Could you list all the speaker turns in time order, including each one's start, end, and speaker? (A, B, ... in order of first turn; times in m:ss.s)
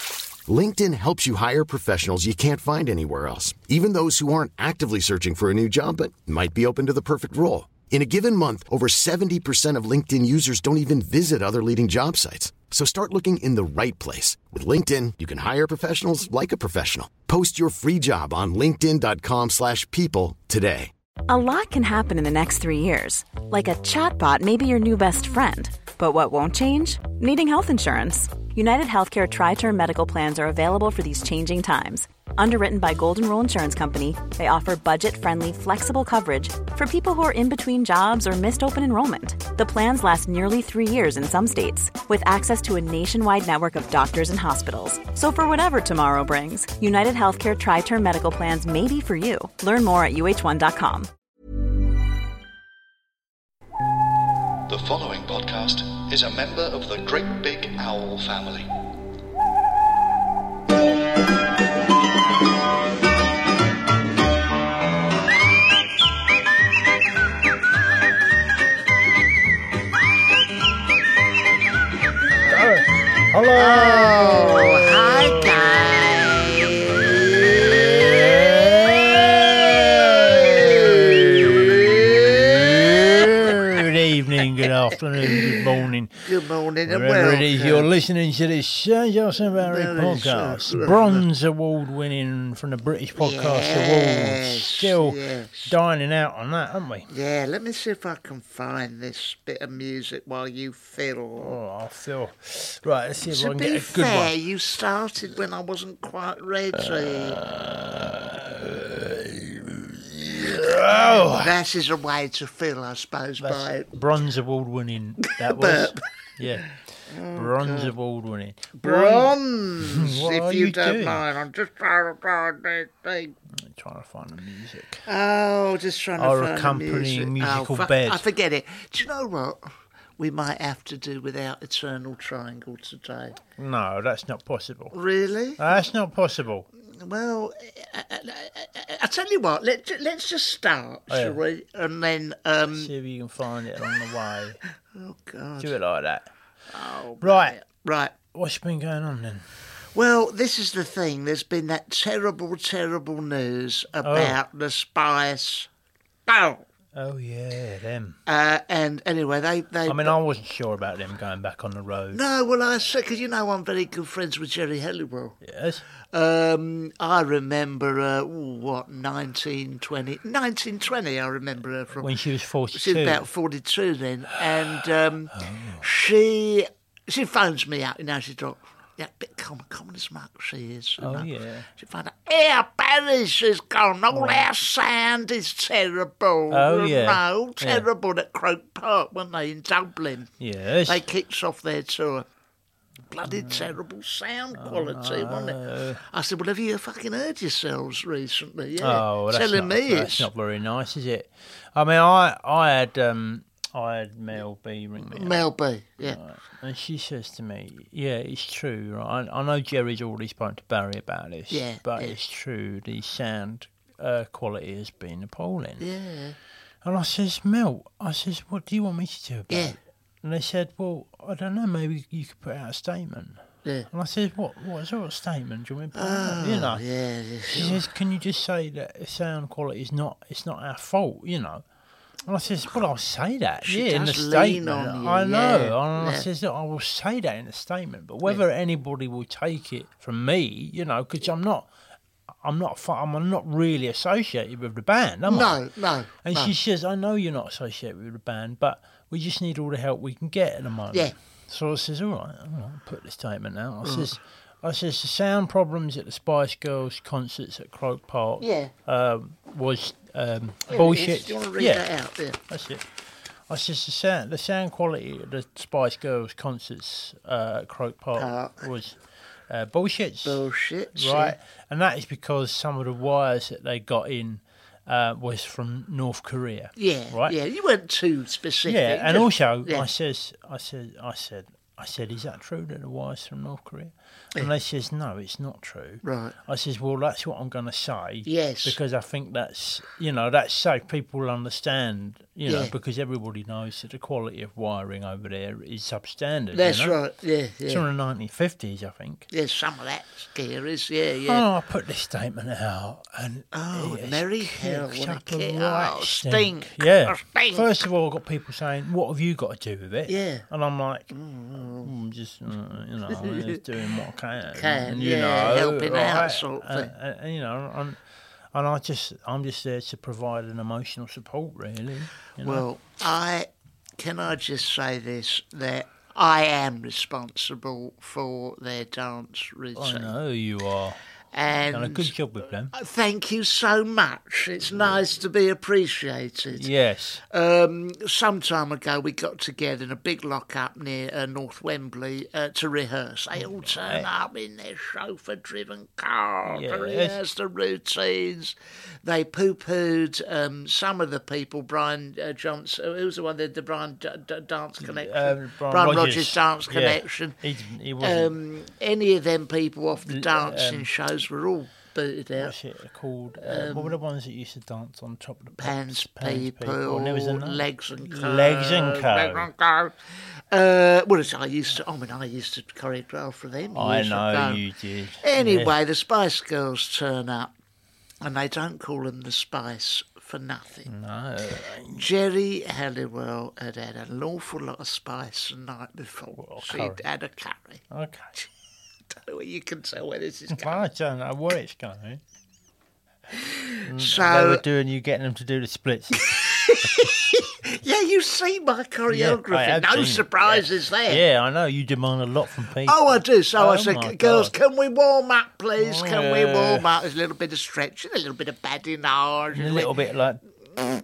0:00.5-0:20.9 A
0:21.3-0:51.1 B
0:54.7-0:58.7 C
1:12.4-1:16.2 D
1:13.5-1:18.1 E
1:16.8-1:26.2 D
1:20.4-1:23.8 E
1:25.2-1:25.6 E
1:26.2-1:27.9 E
1:26.8-1:37.1 D
1:29.6-1:31.2 E
1:33.2-1:35.7 E
1:37.1-1:41.6 E
1:41.4-1:44.3 D
1:43.3-1:47.4 E
1:46.8-1:51.5 D
1:51.4-1:53.9 E
1:53.4-1:56.7 D
1:55.2-1:56.0 E
1:56.6-1:57.9 E
1:57.3-2:01.2 D
1:58.8-2:03.3 E
2:03.5-2:05.0 D
2:05.0-2:09.6 E
2:06.2-2:08.2 D
2:10.2-2:13.4 E
2:13.6-2:14.9 D
2:14.9-2:15.8 E
2:15.6-2:16.7 D
2:16.8-2:22.9 E
2:21.1-2:21.4 D
2:22.7-2:24.6 D
2:24.9-2:25.8 E
2:25.6-2:26.3 D
2:26.7-2:28.1 E
2:27.2-2:27.6 D
2:28.3-2:29.4 D
2:29.9-2:35.7 E
2:34.0-2:34.4 D
2:36.3-2:36.6 E
2:36.9-2:38.2 D
2:38.3-2:40.1 E
2:39.9-2:42.2 D
2:42.1-2:45.4 E
2:45.4-2:45.8 D
2:46.1-2:52.1 E
2:52.0-2:53.2 D
2:52.7-3:10.3 E
2:54.3-2:55.8 D
3:01.0-3:01.7 D
3:04.1-3:04.5 D
3:06.5-3:07.9 D
3:10.4-3:11.0 D
3:10.8-3:12.3 E
3:13.1-3:15.6 E
3:13.2-3:13.7 D
3:14.5-3:16.0 D
3:16.1-3:20.3 E
3:18.8-3:25.4 D
3:25.0-3:26.2 E
3:26.0-3:35.8 D
3:31.5-3:32.2 E
3:35.8-3:36.4 E
3:36.8-3:46.8 D
3:39.5-3:39.8 E
3:43.6-3:43.9 E
3:45.9-3:47.8 E
3:47.5-3:51.6 D
3:52.2-4:01.7 D
3:53.6-3:56.2 E
4:02.4-4:05.6 D
4:05.2-4:06.5 E
4:06.2-4:21.8 D
4:13.8-4:14.2 E
4:18.4-4:18.7 E
4:20.7-4:22.4 E
4:22.5-4:22.8 D
4:23.5-4:29.0 D
4:28.2-4:28.6 E
4:29.5-4:37.3 D
4:30.2-4:31.4 E
4:36.8-4:39.9 E
4:38.6-4:57.0 D
4:46.0-4:46.3 E
4:48.2-4:48.8 E
4:52.5-4:52.7 E
4:56.5-4:57.8 E
4:57.7-4:59.3 D
4:59.3-5:01.4 E
5:01.2-5:18.0 D
5:03.5-5:07.7 E
5:10.1-5:10.5 E
5:11.1-5:11.9 E
5:13.2-5:13.6 E
5:14.5-5:16.9 E
5:18.5-5:22.6 D
5:22.4-5:30.1 E
5:29.8-5:31.0 D
5:31.3-5:32.1 E
5:31.7-5:32.7 D
5:32.7-5:36.7 E
5:36.5-5:37.2 D
5:37.3-5:57.4 E
5:43.6-5:44.1 D
5:46.4-5:47.2 D
5:54.8-5:58.3 D
5:58.0-6:02.5 E
6:00.1-6:00.9 D
6:02.4-6:09.5 D
6:03.4-6:04.0 E
6:05.6-6:10.0 E
6:10.5-6:14.6 E
6:13.7-6:15.8 D
6:15.2-6:17.5 E
6:18.2-6:20.9 E
6:20.8-6:22.1 D
6:21.9-6:27.8 E
6:26.3-6:27.0 D
6:27.9-6:28.3 D
6:29.1-6:30.9 E
6:30.5-6:32.2 D
6:33.3-6:34.6 E
6:33.8-6:37.1 D
6:36.2-6:41.2 E
6:39.1-6:44.5 D
6:42.8-6:49.9 E
6:45.8-6:46.9 D
6:49.5-6:50.4 D